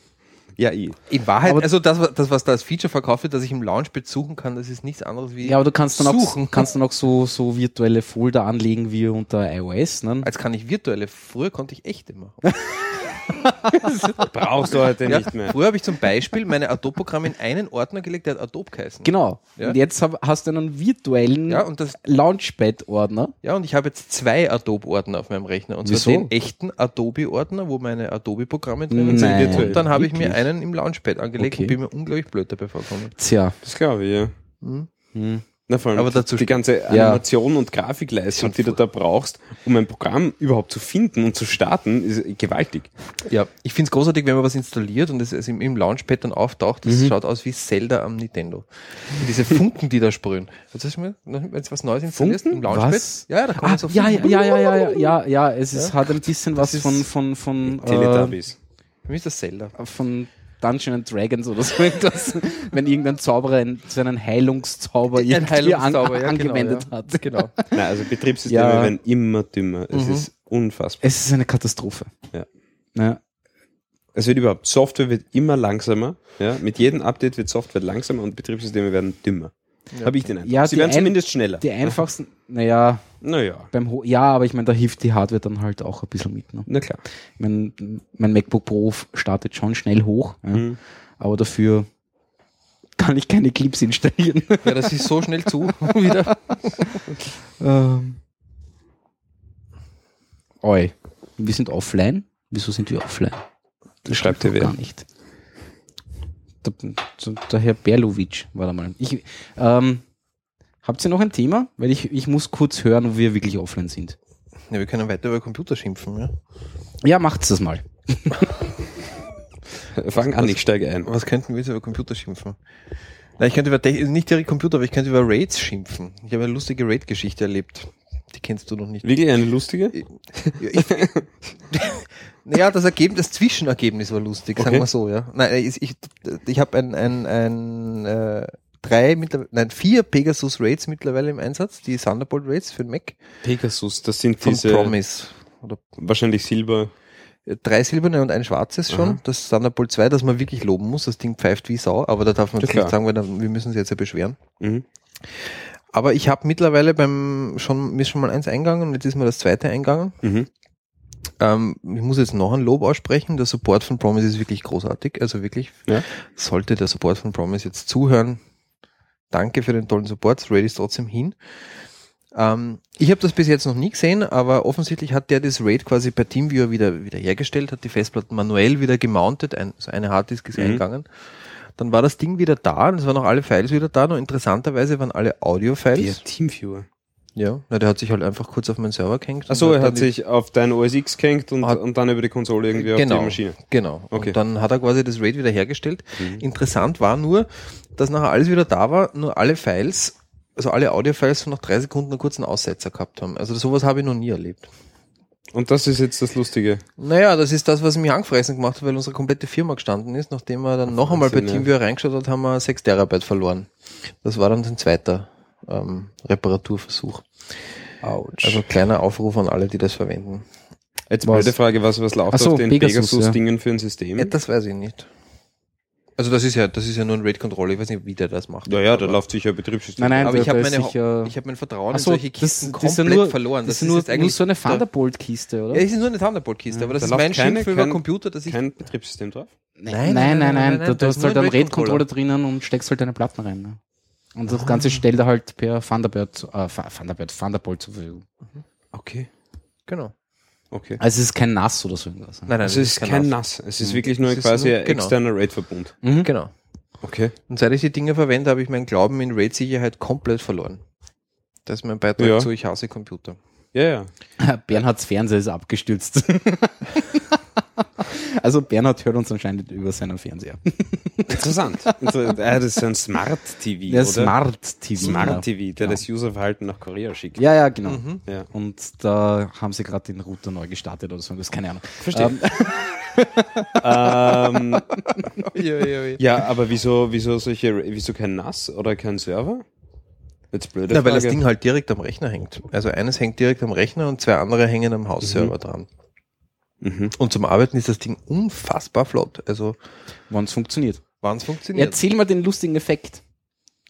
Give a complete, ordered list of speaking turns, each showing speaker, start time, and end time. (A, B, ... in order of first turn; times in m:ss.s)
0:00.6-0:01.0 A
0:01.1-0:06.7 B
0:05.4-0:10.3 C
0:10.2-0:14.3 B
0:12.4-0:14.3 C
0:14.3-0:15.6 A
0:15.0-0:19.8 B
0:19.0-0:23.3 C
0:21.5-0:22.0 B
0:23.4-0:33.2 B
0:25.8-0:26.3 C
0:28.9-0:30.4 C
0:29.1-0:29.8 A
0:31.4-0:31.8 C
0:33.2-0:33.6 C
0:33.6-0:34.3 A
0:34.6-0:34.9 B
0:35.2-0:35.4 C
0:35.7-0:42.9 A
0:35.9-0:36.6 B
0:36.9-0:37.2 C
0:38.3-0:38.8 B
0:43.3-0:55.1 B
0:46.8-0:47.1 C
0:52.2-0:58.4 C
0:55.7-0:57.1 B
0:57.6-0:58.6 A
0:59.1-0:59.8 B
0:59.8-1:07.8 C
1:05.1-1:07.5 B
1:07.7-1:11.0 A
1:08.4-1:09.0 C
1:09.9-1:10.3 B
1:11.0-1:12.1 C
1:13.0-1:13.2 C
1:14.2-1:22.0 A
1:20.4-1:23.1 C
1:23.2-1:23.7 A
1:23.7-1:26.7 C
1:26.7-1:27.0 A
1:27.4-1:31.9 C
1:30.5-1:30.8 A
1:33.0-1:35.1 C
1:34.6-1:36.9 B
1:35.7-1:37.0 C
1:37.6-1:38.2 C
1:40.6-1:43.4 C
1:44.0-1:45.1 C
1:44.1-1:44.7 A
1:46.6-1:50.0 C
1:50.8-1:54.2 C
1:54.7-1:56.3 B
1:57.0-1:58.5 C
1:59.9-2:01.1 A
2:00.2-2:02.6 B
2:03.4-2:09.1 B
2:09.0-2:11.5 A
2:10.6-2:11.1 B
2:11.7-2:23.2 B
2:14.6-2:14.9 A
2:23.4-2:25.0 A
2:24.4-2:25.8 B
2:26.0-2:26.9 A
2:27.5-2:34.4 B
2:28.9-2:29.2 A
2:32.6-2:33.0 A
2:34.6-2:34.8 A
2:35.3-2:40.2 B
2:40.2-2:40.5 A
2:41.4-2:48.4 B
2:49.3-2:51.4 B
2:52.4-3:01.1 B
3:00.6-3:00.8 A
3:01.8-3:06.2 B
3:06.0-3:06.9 A
3:07.4-3:10.1 B
3:09.5-3:13.6 A
3:12.8-3:24.7 B
3:14.1-3:14.4 A
3:25.5-3:26.8 A
3:27.0-3:33.7 B
3:30.9-3:31.7 A
3:34.2-3:37.3 B
3:38.0-3:38.6 C
3:38.4-3:40.4 B
3:41.1-3:44.3 A
3:41.2-3:41.5 C
3:42.3-3:43.4 C
3:44.2-3:45.1 B
3:46.2-3:49.2 B
3:48.7-3:50.4 A
3:50.0-3:51.4 C
3:50.2-3:54.9 B
3:51.9-3:55.8 C
3:55.7-3:58.6 B
3:56.8-3:59.5 A
3:59.8-4:03.8 C
3:59.9-4:02.0 B
4:04.4-4:08.2 C
4:04.5-4:05.0 B
4:08.9-4:09.3 A
4:09.9-4:10.1 B
4:10.7-4:11.0 A
4:11.0-4:12.5 C
4:12.5-4:13.3 B
4:12.6-4:16.0 A
4:14.1-4:15.1 B
4:16.0-4:16.3 C
4:16.2-4:16.5 B
4:17.0-4:17.4 A
4:17.5-4:20.8 B
4:21.7-4:23.4 B
4:22.2-4:22.5 A
4:23.7-4:24.1 A
4:24.4-4:32.3 C
4:31.3-4:34.4 A
4:33.9-4:36.0 C
4:35.0-4:37.4 A
4:35.1-4:35.3 B
4:37.4-4:45.5 C
4:37.9-4:38.2 B
4:42.0-4:42.4 A
4:43.8-4:44.9 A
4:45.5-4:46.2 B
4:46.2-4:49.6 A
4:50.5-4:51.4 A
4:50.9-4:55.9 B
4:55.2-4:55.5 A
4:56.8-4:57.1 A
4:57.2-4:59.8 B
5:00.3-5:01.0 C
5:01.2-5:02.0 B
5:01.7-5:03.2 C